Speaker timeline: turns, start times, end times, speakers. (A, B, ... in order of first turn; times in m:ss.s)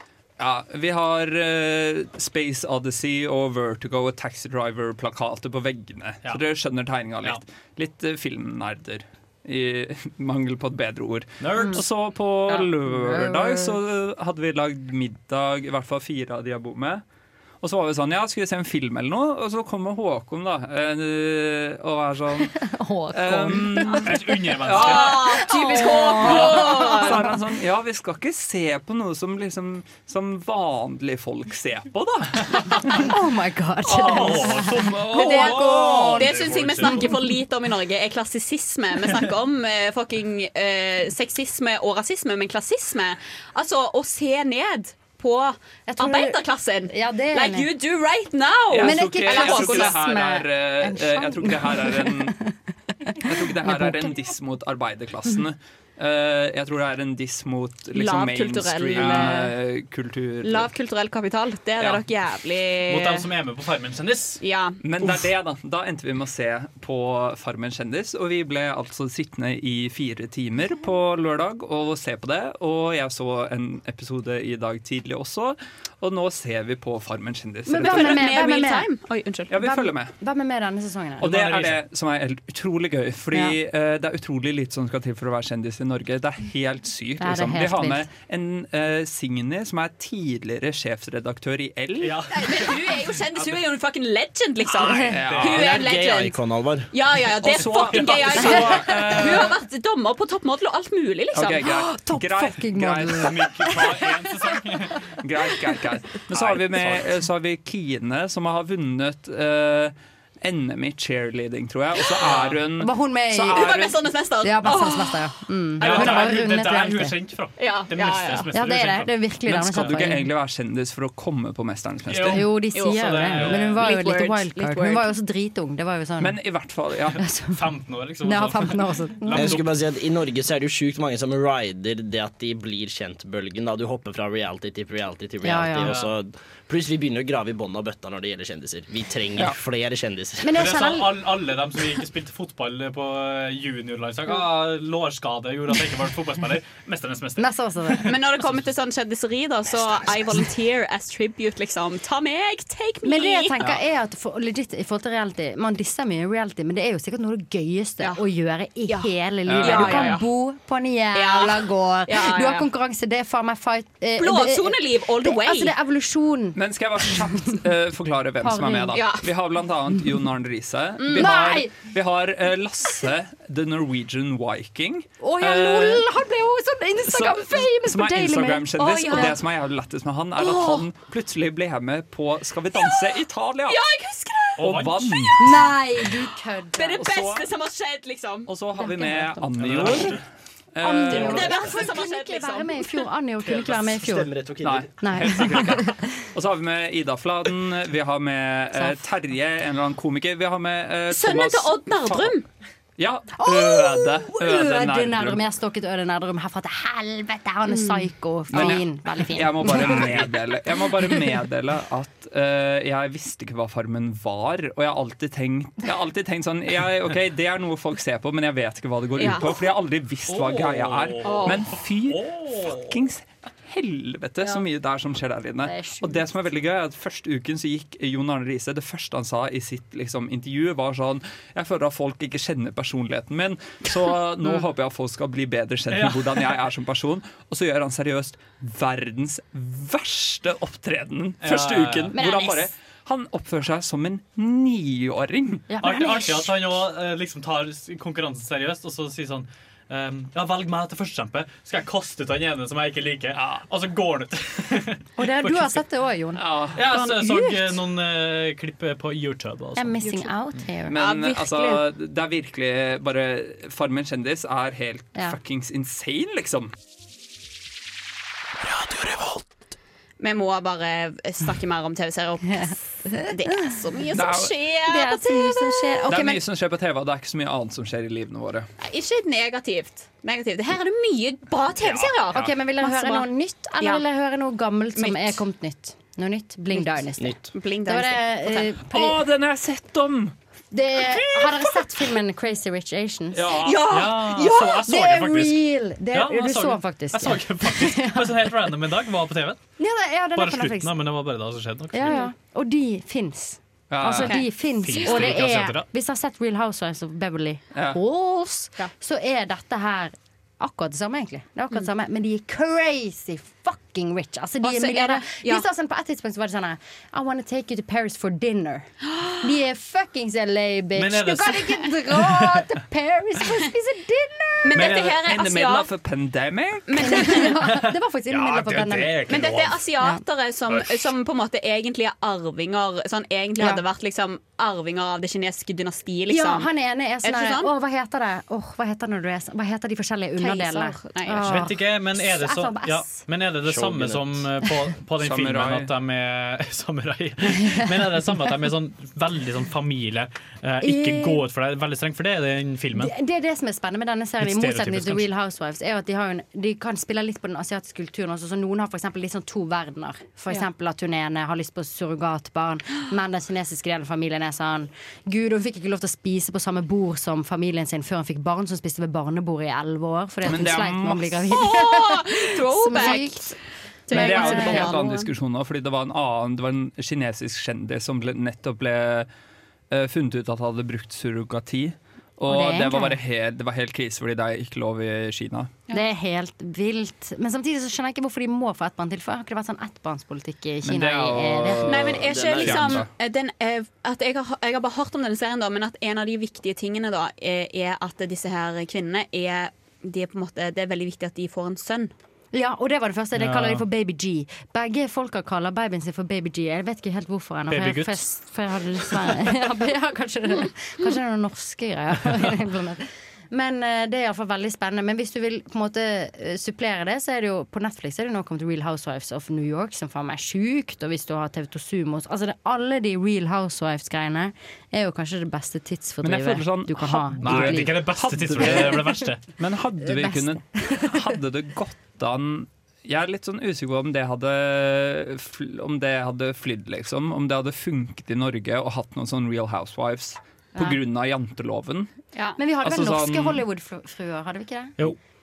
0:00.4-0:17.0 A
0:11.4-0:11.8 B
0:11.6-0:11.8 C
0:12.5-0:13.8 C
0:17.6-0:22.6 A
0:22.4-0:24.3 C
0:23.1-0:25.5 A
0:24.0-0:25.2 B
0:24.7-0:27.2 D
0:25.2-0:27.4 C
0:26.0-0:33.1 A
0:32.8-0:37.2 C
0:33.8-0:36.0 A
0:33.9-0:37.2 B
0:35.1-0:50.0 D
0:45.9-0:47.7 C
0:48.7-0:52.4 A
0:48.8-0:52.5 C
0:53.1-0:54.1 C
0:53.2-1:00.7 A
0:57.9-0:59.5 D
1:00.4-1:03.2 D
1:02.9-1:04.4 B
1:04.4-1:04.8 D
1:04.8-1:18.4 A
1:17.7-1:18.9 C
1:17.8-1:19.5 D
1:19.5-1:20.1 A
1:19.5-1:21.4 C
1:21.2-1:32.2 A
1:21.3-1:21.8 B
1:27.2-1:28.1 C
1:32.0-1:32.8 B
1:32.3-1:36.4 D
1:34.9-1:35.6 B
1:35.1-1:35.7 A
1:35.4-1:36.9 E
1:36.9-1:41.7 D
1:37.4-1:39.5 A
1:37.5-1:39.1 B
1:41.3-1:43.5 A
1:41.6-1:44.1 C
1:43.1-1:45.0 B
1:45.2-1:54.0 A
1:46.3-1:47.1 B
1:52.2-1:52.6 B
1:52.8-1:53.8 C
1:53.4-1:55.2 D
1:54.4-1:57.2 C
1:55.8-1:56.2 D
1:55.8-1:59.1 B
1:57.6-1:58.5 D
1:58.5-2:00.3 C
1:59.4-2:02.5 A
1:59.7-2:00.0 B
2:02.1-2:03.8 B
2:02.2-2:06.4 C
2:02.7-2:05.1 D
2:06.2-2:07.2 A
2:07.2-2:07.6 C
2:07.5-2:09.7 B
2:08.2-2:09.6 C
2:09.3-2:20.6 E
2:15.4-2:15.9 C
2:15.8-2:16.1 B
2:20.4-2:21.1 C
2:20.5-2:28.1 B
2:27.4-2:28.1 C
2:28.0-2:33.6 D
2:33.0-2:47.6 C
2:38.9-2:40.2 D
2:39.5-2:40.2 A
2:41.1-2:42.7 D
2:44.2-2:45.7 D
2:46.5-2:56.1 A
2:48.4-2:49.0 C
2:48.9-2:49.3 D
2:51.0-2:51.3 D
2:51.1-2:51.9 C
2:55.2-2:59.4 C
2:57.0-3:03.8 A
2:58.8-2:59.3 D
3:00.4-3:00.8 C
3:02.8-3:03.0 D
3:03.7-3:04.7 D
3:04.6-3:05.6 B
3:04.6-3:05.7 A
3:05.4-3:07.0 C
3:06.7-3:08.5 D
3:07.0-3:07.5 A
3:08.5-3:10.2 A
3:08.8-3:09.9 C
3:09.6-3:10.2 B
3:10.7-3:11.6 A
3:10.8-3:14.3 C
3:11.1-3:13.0 D
3:13.4-3:15.3 E
3:14.6-3:22.4 A
3:15.0-3:16.0 C
3:18.7-3:19.0 C
3:21.1-3:22.4 D
3:23.0-3:25.4 A
3:23.4-3:30.3 C
3:27.7-3:28.7 D
3:28.5-4:05.6 A
3:39.2-3:39.5 D
3:40.3-3:42.9 B
3:41.2-3:41.6 D
3:45.6-3:46.3 C
3:55.9-3:56.5 B
4:01.4-4:02.2 B
4:02.1-4:02.7 C
4:05.7-4:06.5 C
4:05.8-4:15.8 B
4:13.4-4:13.6 A
4:15.2-4:16.4 C
4:16.4-4:16.8 A
4:16.7-4:20.2 B
4:17.0-4:17.5 D
4:19.8-4:21.0 C
4:20.9-4:26.7 A
4:20.9-4:21.8 D
4:28.8-4:29.2 B
4:30.2-4:32.7 D
4:32.5-4:33.8 C
4:33.2-4:36.3 D
4:34.1-4:34.5 A
4:34.8-4:36.4 C
4:36.1-4:38.7 A
4:38.8-4:43.3 D
4:41.8-4:42.5 A
4:42.3-4:49.2 C
4:45.0-4:45.4 D
4:47.5-4:48.7 D
4:48.8-4:50.3 A
4:50.7-4:53.6 C
4:51.0-4:51.8 A
4:53.3-4:54.0 A
4:53.6-4:54.8 D
4:53.8-4:59.6 B
4:54.4-4:58.5 C
4:59.8-5:01.0 C
5:00.3-5:02.3 B
5:01.9-5:24.8 C
5:03.9-5:04.4 A
5:04.8-5:05.9 B
5:05.0-5:05.2 D
5:14.6-5:15.6 D
5:21.0-5:22.6 B
5:24.6-5:25.9 D
5:24.7-5:25.2 B
5:25.2-5:27.2 A
5:26.9-5:27.6 D
5:27.0-5:29.4 C
5:27.6-5:29.8 B
5:29.3-5:36.7 D
5:36.3-5:43.2 C
5:37.2-5:37.7 D
5:40.4-5:41.5 D
5:41.4-5:53.1 B
5:43.6-5:44.5 E
5:45.2-5:45.9 A
5:50.8-5:51.4 C
5:52.9-6:15.1 C
5:54.4-5:55.2 B
6:10.4-6:11.5 A
6:11.5-6:13.6 D
6:14.1-6:15.3 D
6:14.1-6:19.3 A
6:19.9-6:25.7 A
6:22.4-6:23.2 C
6:25.9-6:32.1 C
6:30.8-6:33.1 A
6:31.8-6:42.1 D
6:32.2-6:33.0 E
6:42.5-7:09.1 C
6:43.4-6:43.8 B
6:47.7-6:48.2 B
6:49.1-6:49.4 B
7:06.2-7:22.1 A
7:07.4-7:09.4 B
7:10.0-7:11.3 C
7:22.6-7:24.9 C
7:22.8-7:23.6 A